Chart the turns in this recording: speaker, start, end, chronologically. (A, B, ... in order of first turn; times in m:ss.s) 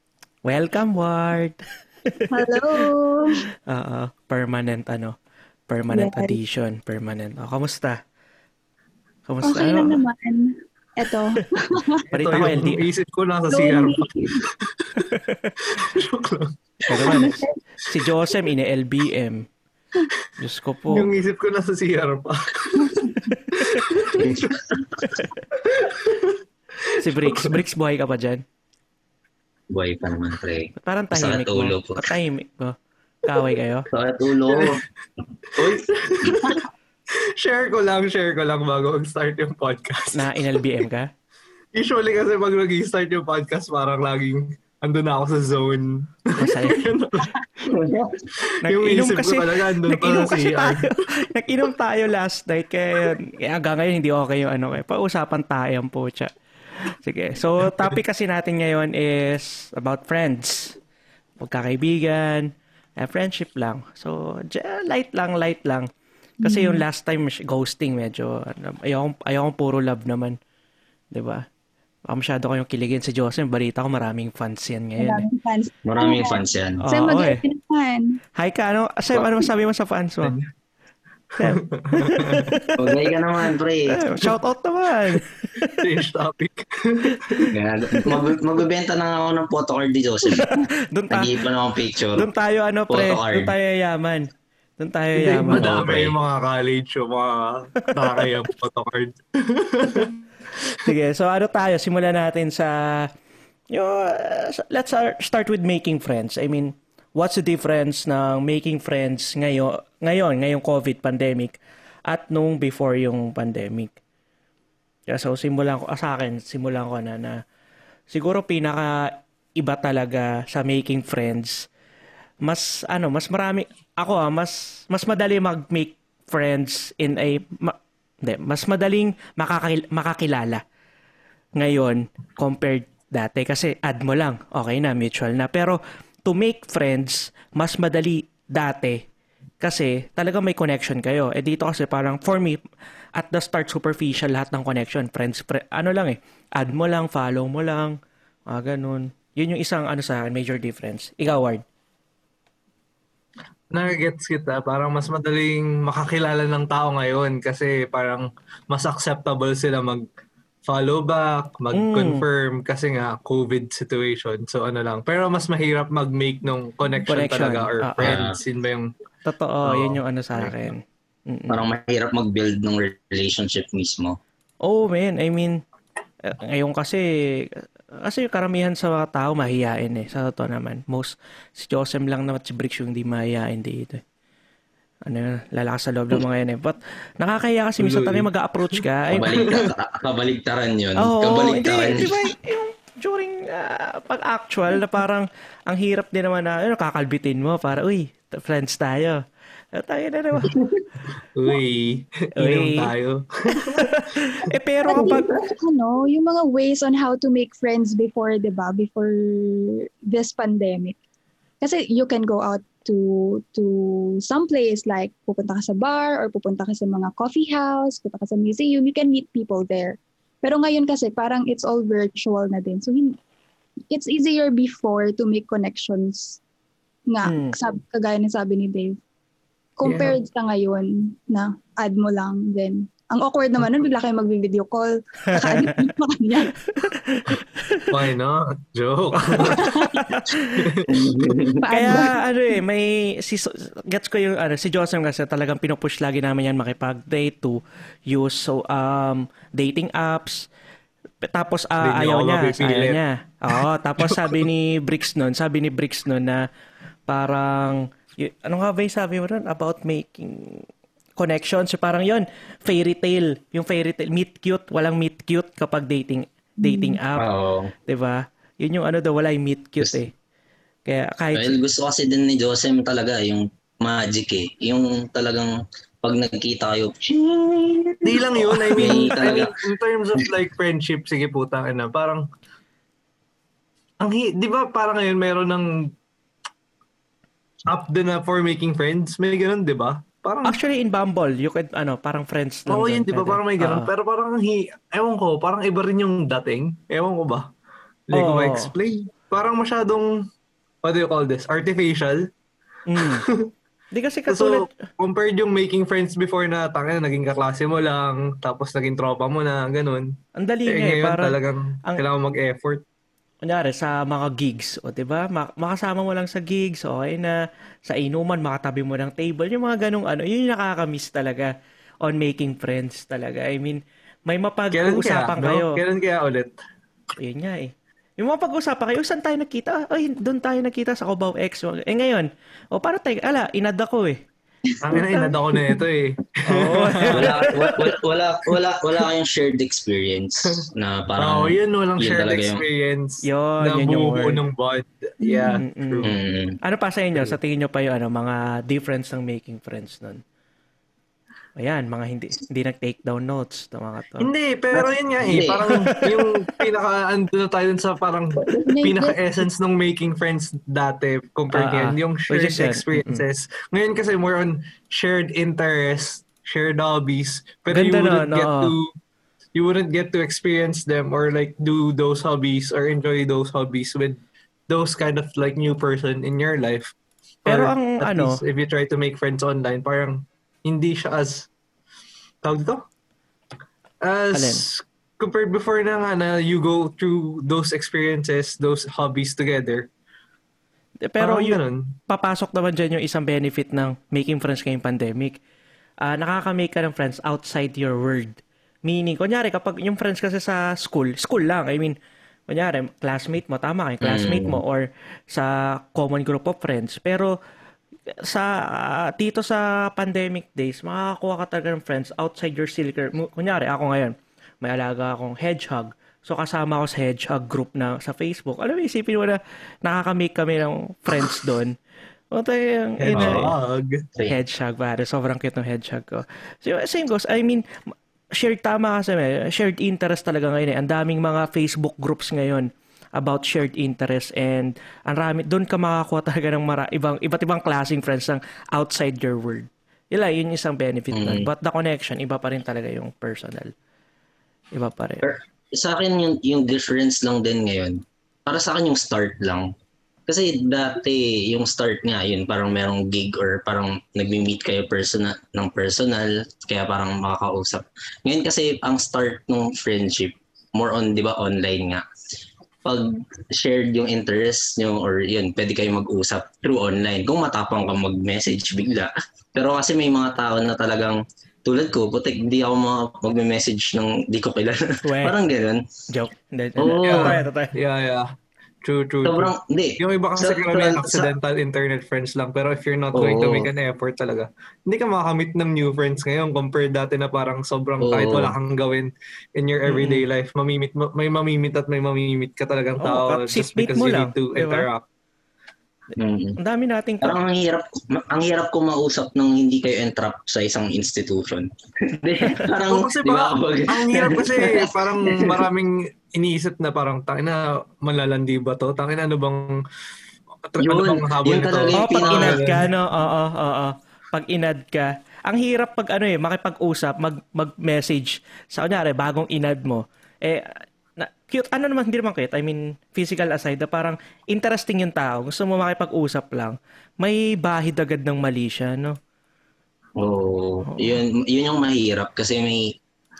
0:00.4-0:01.6 A
0:02.1-0:02.9 A
0:02.3-0:03.4 B
0:03.7-0:05.2 A
0:05.7-0:08.0 A
0:05.9-0:06.4 B
0:09.3-0:10.0 A
0:09.4-0:12.0 B
0:12.1-0:15.0 C
0:12.1-0:12.8 A
0:13.5-0:14.4 B
0:15.0-0:15.5 A
0:15.6-0:17.4 C
0:16.9-0:19.5 A
0:16.9-0:17.6 B
0:20.4-0:21.1 A
0:20.9-0:24.6 C
0:22.8-0:23.1 B
0:23.6-0:23.8 A
0:24.2-0:24.8 D
0:25.6-0:27.6 C
0:27.0-0:28.4 A
0:29.7-0:32.2 D
0:30.8-0:33.9 A
0:33.9-0:34.8 D
0:34.5-0:34.8 C
0:35.6-0:36.6 D
0:35.6-0:36.6 C
0:37.4-0:40.8 C
0:40.1-0:41.1 A
0:41.7-0:47.8 C
0:46.4-0:46.9 A
0:47.7-0:48.2 D
0:48.4-0:50.9 C
0:48.6-0:56.3 A
0:56.8-1:00.8 A
0:57.6-0:57.9 C
1:01.4-1:05.9 A
1:06.4-1:06.8 B
1:06.4-1:10.4 A
1:11.1-1:11.4 A
1:12.1-1:15.2 A
1:15.0-1:18.2 B
1:15.8-1:16.8 D
1:16.8-1:17.4 A
1:18.4-1:20.4 A
1:19.1-1:19.4 D
1:21.3-1:22.5 C
1:21.4-1:23.0 A
1:22.8-1:24.0 D
1:23.9-1:25.7 A
1:25.6-1:27.5 C
1:27.1-1:28.2 A
1:27.5-1:30.5 D
1:30.3-1:31.4 A
1:31.1-1:32.3 D
1:32.1-1:35.8 A
1:32.9-1:33.5 D
1:35.1-1:40.2 C
1:35.5-1:36.2 D
1:40.8-1:43.1 A
1:43.7-1:53.9 A
1:55.1-1:57.4 A
1:58.1-2:01.6 A
2:02.4-2:10.6 A
2:11.6-2:19.0 A
2:19.6-2:22.6 A
2:23.2-2:27.9 A
2:28.5-2:31.6 A
2:33.7-2:40.0 C
2:40.6-2:48.9 C
2:41.7-2:42.2 A
2:47.1-2:48.2 A
2:48.0-2:48.4 D
2:49.2-2:51.6 A
2:49.6-2:50.0 C
2:51.5-2:54.2 D
2:54.6-2:55.6 A
2:56.2-3:04.0 A
3:05.0-3:09.6 A
3:07.8-3:08.8 C
3:09.1-3:12.2 D
3:09.4-3:09.7 C
3:11.0-3:19.2 A
3:19.7-3:20.5 A
3:20.4-3:20.8 D
3:21.3-3:23.9 C
3:22.4-3:22.9 A
3:23.6-3:25.3 A
3:24.9-3:31.0 B
3:24.9-3:25.4 D
3:31.6-3:43.2 B
3:43.9-3:46.4 B
3:47.1-3:49.0 B
3:47.2-3:47.5 A
3:49.8-3:56.5 B
3:49.8-3:50.2 C
3:55.4-3:55.9 A
3:56.7-3:57.8 A
3:57.9-3:59.8 C
3:59.3-4:00.7 A
3:59.4-4:00.0 B
4:00.5-4:01.3 C
4:00.9-4:01.6 D
4:01.6-4:02.2 B
4:01.7-4:10.5 A
4:11.2-4:16.4 A
4:11.8-4:13.0 C
4:13.5-4:14.4 C
4:17.1-4:20.6 A
4:21.2-4:27.3 A
4:26.6-4:27.0 B
4:27.2-4:27.7 D
4:27.9-4:30.1 A
4:30.9-4:31.5 A
4:31.3-4:35.5 D
4:36.0-4:39.5 D
4:38.0-4:42.2 C
4:38.8-4:39.0 A
4:44.0-4:45.9 C
4:47.7-4:50.6 C
4:50.4-4:53.9 A
4:52.7-4:57.4 C
4:58.1-5:00.1 C
4:58.1-4:58.7 A
5:00.8-5:02.3 C
5:02.9-5:03.2 A
5:03.0-5:03.5 C
5:03.9-5:04.7 A
5:04.3-5:10.1 C
5:10.4-5:12.0 A
5:10.7-5:12.8 C
5:13.4-5:21.5 A
5:22.0-5:25.8 A
5:24.7-5:26.5 C
5:27.2-5:34.2 A
5:34.7-5:35.8 B
5:34.8-5:37.4 C
5:36.5-5:37.8 A
5:37.1-5:42.6 D
5:41.2-5:46.1 C
5:43.2-5:44.4 A
5:45.2-5:45.6 B
5:45.6-5:46.1 A
5:46.0-5:46.6 D
5:46.6-5:50.2 A
5:51.6-5:54.3 A
5:54.2-6:08.9 C
5:54.7-5:55.6 D
5:58.4-5:58.6 D
5:58.6-5:59.2 B
6:01.5-6:03.2 A
6:07.7-6:08.7 A
6:09.5-6:16.9 C
6:17.4-6:21.5 C
6:17.5-6:18.4 A
6:22.4-6:22.8 C
6:24.0-6:29.9 C
6:24.3-6:24.6 A
6:31.1-6:31.6 A
6:31.2-6:31.9 C
6:32.1-6:35.4 A
6:36.0-6:42.0 A
6:42.5-6:47.3 A
6:44.0-6:44.6 D
6:48.2-7:01.8 A
7:02.3-7:03.5 A
7:03.0-7:04.0 C
7:03.2-7:03.5 D
7:04.3-7:23.7 A
7:21.1-7:21.5 D
7:24.7-7:25.2 A
7:25.2-7:29.7 D
7:30.3-7:42.0 D
7:42.8-7:55.8 D
7:55.0-7:55.4 A
7:56.1-7:57.7 A
7:56.8-7:57.4 D
7:57.0-7:58.3 C
7:58.8-8:15.0 C
7:59.2-8:01.3 D
8:03.1-8:03.7 D
8:08.0-8:08.5 D
8:09.8-8:10.3 A
8:13.0-8:14.9 A
8:16.2-8:16.6 D
8:16.6-8:17.4 A
8:17.2-8:25.7 D
8:22.8-8:29.8 C
8:30.7-8:32.9 C
8:30.8-8:32.6 D
8:32.0-8:49.2 A
8:50.2-8:52.9 D
8:50.8-8:51.2 A